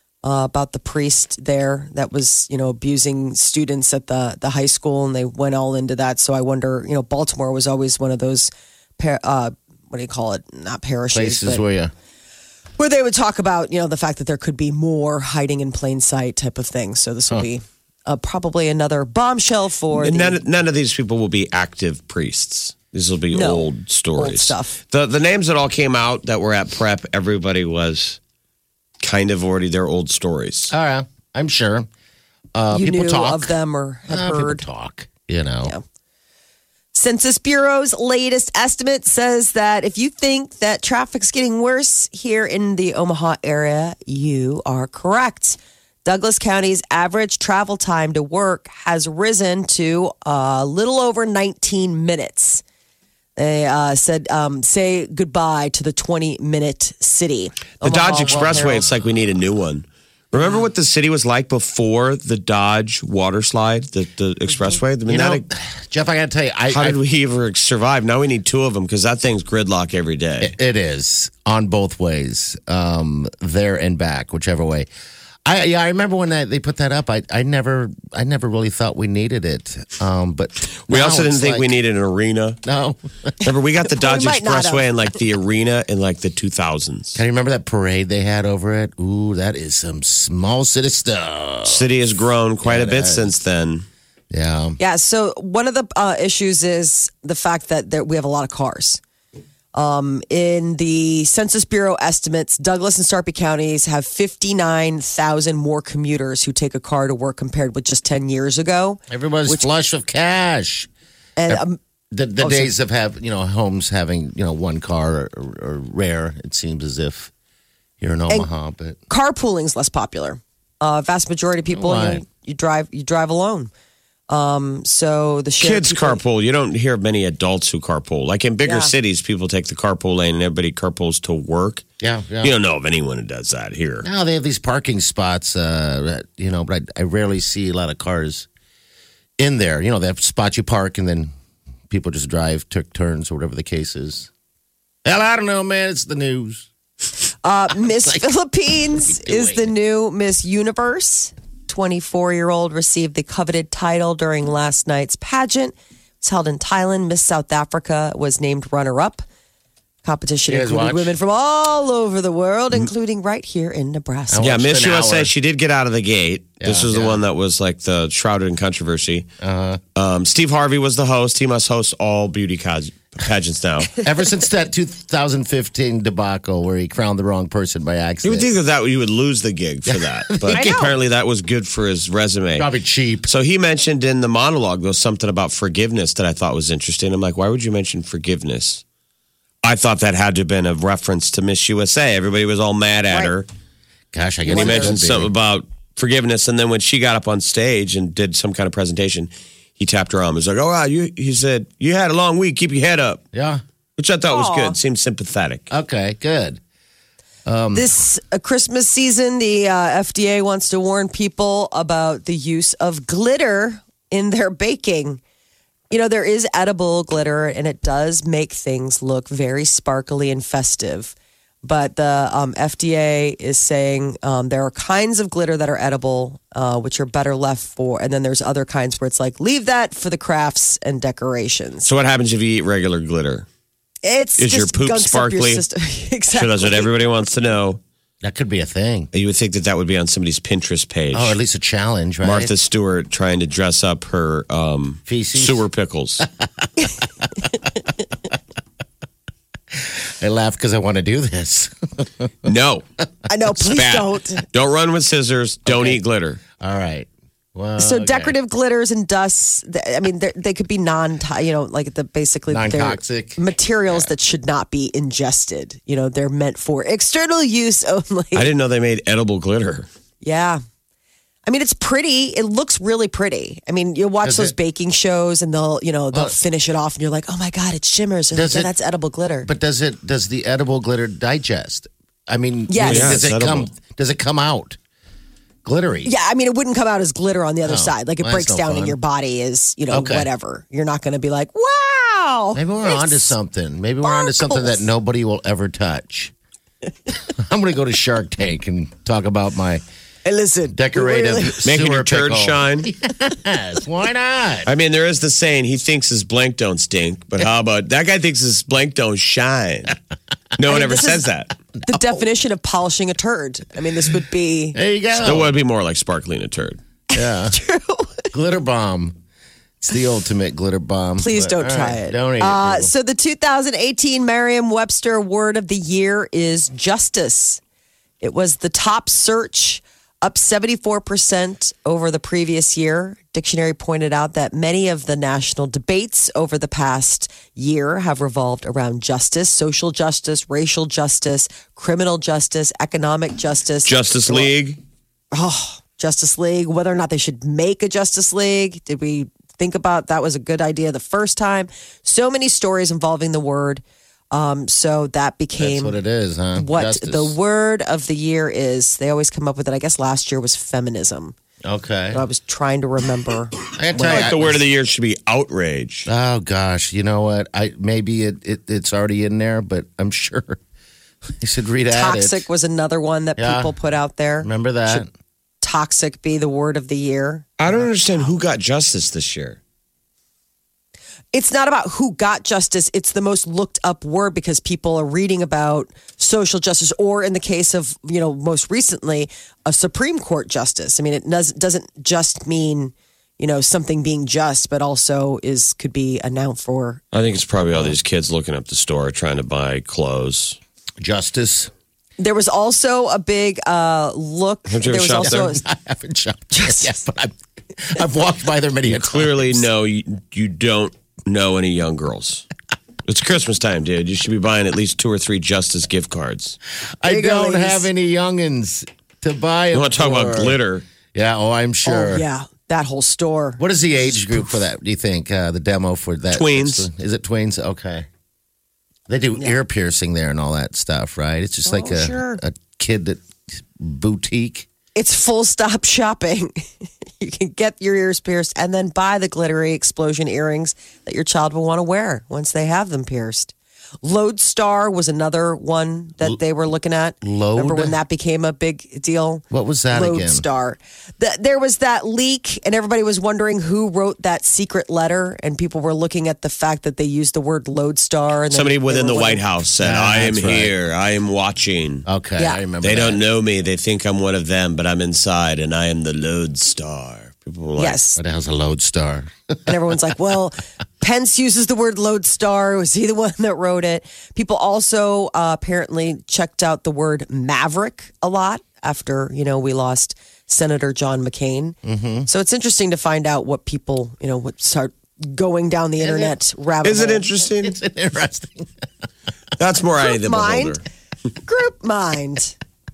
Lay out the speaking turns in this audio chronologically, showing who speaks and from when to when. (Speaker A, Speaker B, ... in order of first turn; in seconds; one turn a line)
Speaker A: 0.2-11.7
Speaker B: 11.1-11.9
Speaker A: 12.8-20.4
Speaker C: 19.9-28.2
Speaker A: 23.3-24.8
Speaker C: 29.0-30.7
Speaker B: 30.7-31.9
Speaker B: 32.5-33.5
Speaker A: 32.7-34.6
Speaker B: 34.1-35.7
Speaker A: 36.9-52.6
Speaker A: 53.4-58.7
Speaker C: 57.8-65.5
Speaker B: 58.2-59.0
Speaker B: 65.1-67.0
Speaker C: 66.7-70.5
Speaker B: 70.4-74.9
Speaker B: 75.5-81.8
Speaker C: 80.9-82.6
Speaker B: 82.6-83.0
Speaker C: 83.4-87.2
Speaker A: 83.8-84.8
Speaker B: 87.2-91.9
Speaker C: 91.7-93.8
Speaker B: 92.6-93.3
Speaker B: 94.3-94.8
Speaker A: 94.8-99.0
Speaker A: 99.7-109.7
Speaker B: 109.1-110.9
Speaker A: 111.4-111.8
Speaker B: 111.5-117.3
Speaker A: 112.4-112.7
Speaker B: 118.0-119.0
Speaker A: 119.1-123.7
Speaker B: 121.7-122.2
Speaker A: 124.3-126.2
Speaker C: 125.6-131.8
Speaker A: 128.7-128.9
Speaker B: 132.0-132.6
Speaker C: 132.4-134.1
Speaker B: 134.0-138.5
Speaker B: 139.4-141.3
Speaker B: 141.9-144.3
Speaker B: 145.1-146.7
Speaker A: 147.4-159.2
Speaker B: 147.8-148.3
Speaker B: 148.9-149.7
Speaker A: 160.0-164.5
Speaker B: 160.5-161.1
Speaker B: 164.3-165.3
Speaker C: 164.4-169.3
Speaker B: 166.6-167.2
Speaker B: 169.4-169.8
Speaker C: 170.0-174.0
Speaker B: 174.0-178.5
Speaker C: 178.2-182.7
Speaker B: 179.9-180.8
Speaker A: 180.5-180.9
Speaker B: 182.6-183.3
Speaker C: 183.3-188.8
Speaker C: 189.6-193.5
Speaker B: 194.1-195.3
Speaker A: 194.5-195.0
Speaker C: 194.5-203.2
Speaker B: 203.3-203.6
Speaker C: 204.0-205.7
Speaker A: 204.3-204.8
Speaker B: 205.7-206.6
Speaker B: 207.5-207.9
Speaker A: 207.7-215.2
Speaker A: 215.9-231.9
Speaker C: 231.8-233.5
Speaker A: 234.1-236.9
Speaker C: 234.4-235.6
Speaker C: 236.3-237.8
Speaker B: 238.2-239.1
Speaker C: 239.1-241.4
Speaker B: 241.1-242.5
Speaker C: 242.2-246.2
Speaker B: 245.1-245.7
Speaker B: 249.7-252.5
Speaker C: 252.4-252.8
Speaker A: 253.3-254.4
Speaker C: 253.6-256.4
Speaker B: 255.7-256.0
Speaker B: 256.6-258.3
Speaker A: 257.8-268.5
Speaker B: 262.5-264.1
Speaker C: 268.4-269.9
Speaker A: 270.2-270.6
Speaker A: 271.4-279.5
Speaker B: 274.2-274.5
Speaker B: 278.3-278.7
Speaker B: 279.4-284.8
Speaker A: 282.7-283.2
Speaker C: 282.8-283.7
Speaker B: 285.6-286.1
Speaker A: 286.0-293.4
Speaker B: 287.7-289.0
Speaker B: 289.9-290.3
Speaker B: 292.5-296.3
Speaker A: 294.0-294.8
Speaker B: 297.4-299.8
Speaker A: 300.2-301.6
Speaker B: 300.7-304.7
Speaker C: 301.6-302.9
Speaker C: 304.7-310.0
Speaker C: 310.6-311.6
Speaker A: 310.6-311.2
Speaker A: 311.9-314.8
Speaker B: 311.9-312.2
Speaker B: 314.7-315.5
Speaker C: 315.1-316.8
Speaker A: 317.1-318.3
Speaker B: 317.1-317.6
Speaker B: 318.3-319.2
Speaker B: 319.8-322.9
Speaker A: 321.2-327.6
Speaker A: 328.2-344.5
Speaker C: 343.9-344.8
Speaker A: 345.3-356.0
Speaker B: 355.6-357.4
Speaker A: 356.6-361.4
Speaker B: 361.6-362.2
Speaker A: 362.1-364.3
Speaker B: 363.8-364.6
Speaker C: 364.0-366.1
Speaker B: 366.1-370.6
Speaker B: 371.4-372.4
Speaker A: 371.9-375.1
Speaker B: 373.4-373.7
Speaker B: 374.4-375.1
Speaker A: 375.6-377.5
Speaker C: 377.6-379.6
Speaker A: 381.3-397.0
Speaker C: 397.1-400.6
Speaker B: 401.0-401.7
Speaker A: 402.2-405.6
Speaker C: 404.7-405.5
Speaker B: 405.2-409.7
Speaker A: 406.5-407.0
Speaker C: 408.9-412.4
Speaker C: 413.1-416.6
Speaker B: 417.0-420.6
Speaker A: 417.1-417.9
Speaker C: 419.7-420.9
Speaker B: 421.1-422.2
Speaker A: 421.9-424.5
Speaker B: 423.6-428.1
Speaker C: 426.3-426.9
Speaker B: 429.1-434.7
Speaker A: 431.6-432.4
Speaker A: 434.9-436.6
Speaker A: 437.2-459.4
Speaker B: 447.2-448.0
Speaker B: 449.5-450.4
Speaker C: 458.5-462.1
Speaker B: 459.8-460.7
Speaker B: 462.1-463.2
Speaker C: 462.8-468.0
Speaker A: 467.8-468.2
Speaker B: 468.2-469.7
Speaker A: 469.7-487.2
Speaker B: 481.8-482.3
Speaker B: 486.0-486.4
Speaker C: 486.8-487.8
Speaker B: 487.6-488.7
Speaker C: 489.6-490.8
Speaker A: 490.0-490.8
Speaker A: 491.4-492.6